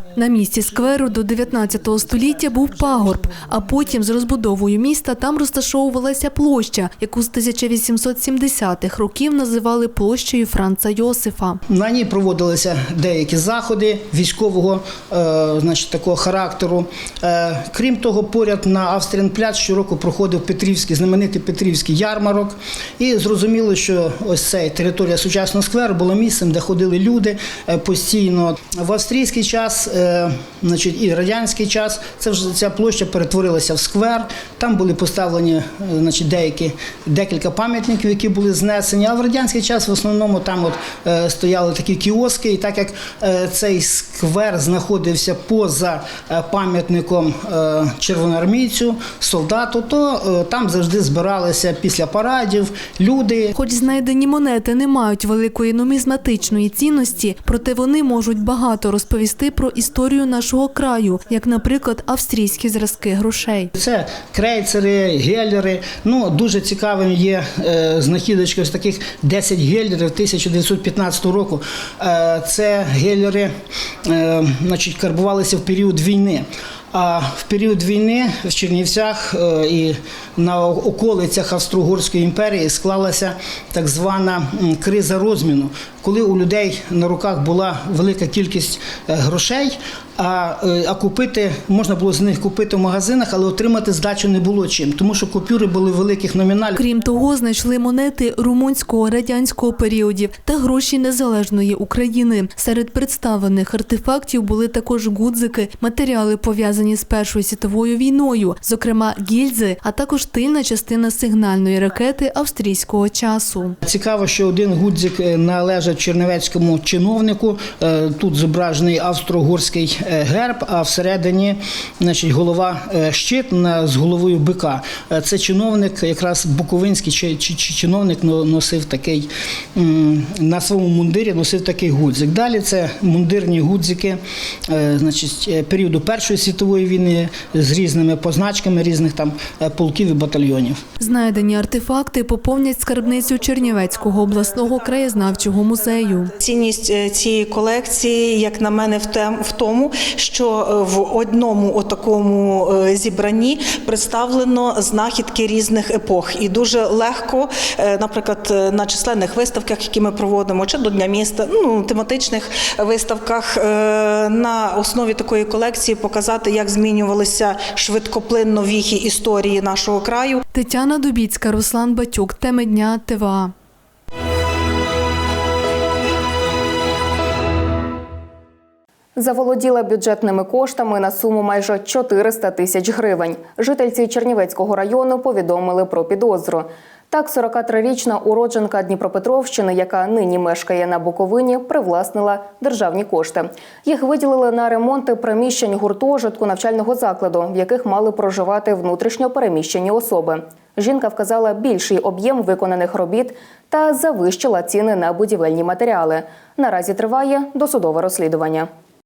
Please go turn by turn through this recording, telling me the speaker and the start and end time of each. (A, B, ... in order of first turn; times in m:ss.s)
0:00.2-0:11.6 A
0:11.7-0:53.5 B
0:53.6-1:03.7 A
1:03.7-1:13.5 B
1:14.0-1:36.8 B
1:36.8-1:53.8 A
1:53.8-2:20.8 B
2:21.0-2:26.3 A
2:26.4-2:50.4 C
2:50.5-2:53.5 A
2:59.2-3:28.7 D